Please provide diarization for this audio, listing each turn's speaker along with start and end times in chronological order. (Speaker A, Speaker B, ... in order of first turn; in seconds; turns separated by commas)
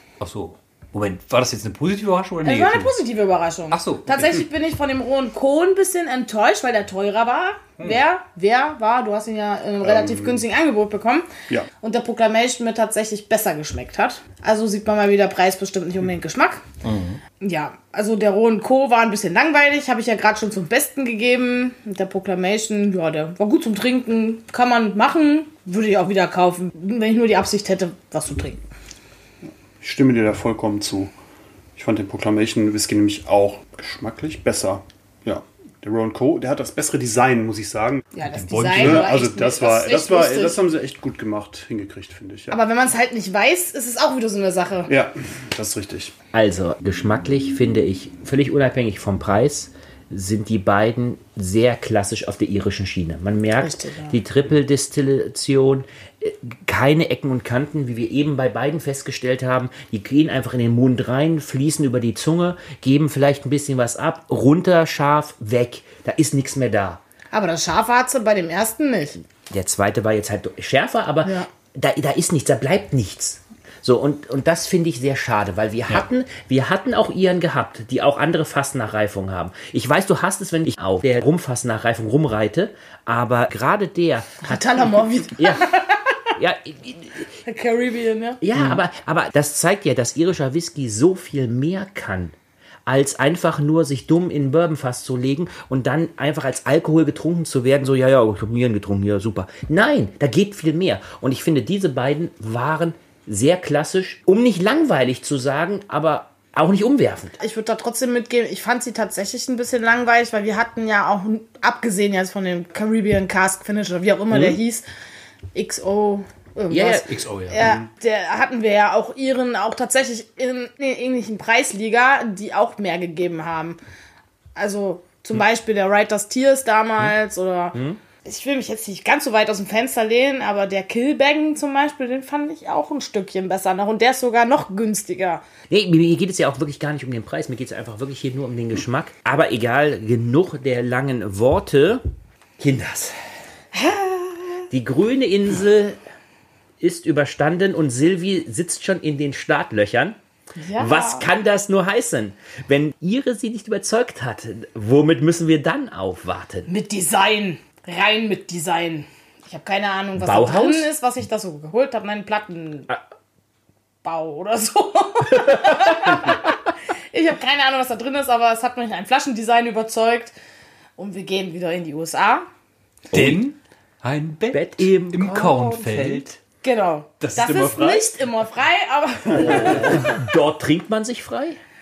Speaker A: 0.2-3.0, Speaker B: 2.4-11.3, Speaker A: 3.7-4.4, Speaker C: 9.8-10.4, Speaker B: 11.8-16.6, Speaker A: 16.8-17.2, Speaker B: 17.4-28.6, Speaker C: 29.8-31.1, Speaker C: 31.8-38.1, Speaker B: 38.1-40.6, Speaker A: 38.3-39.2, Speaker C: 38.7-42.6, Speaker B: 42.5-44.9, Speaker C: 44.9-46.1, Speaker D: 46.3-67.0, Speaker B: 53.6-54.1, Speaker B: 67.3-69.2, Speaker D: 69.5-85.7, Speaker B: 71.2-71.5, Speaker B: 84.4-86.2, Speaker D: 86.3-87.3, Speaker B: 87.4-88.4, Speaker D: 88.4-92.3, Speaker D: 92.9-107.3, Speaker B: 107.4-114.8, Speaker B: 115.5-123.8, Speaker D: 116.7-117.0, Speaker A: 117.0-117.6, Speaker B: 124.5-135.4, Speaker D: 127.7-128.0, Speaker D: 135.7-142.0, Speaker D: 142.6-143.2, Speaker B: 143.7-144.6, Speaker D: 144.7-146.0, Speaker D: 146.8-150.2, Speaker B: 150.6-151.3, Speaker D: 150.8-156.7, Speaker B: 156.7-163.0, Speaker D: 160.2-160.9, Speaker B: 164.0-166.6, Speaker D: 165.5-166.1, Speaker B: 167.1-170.3, Speaker B: 171.0-172.4, Speaker A: 173.1-176.4, Speaker D: 173.1-173.4, Speaker D: 174.5-176.3, Speaker B: 176.6-180.1, Speaker A: 177.2-178.1, Speaker D: 179.3-181.6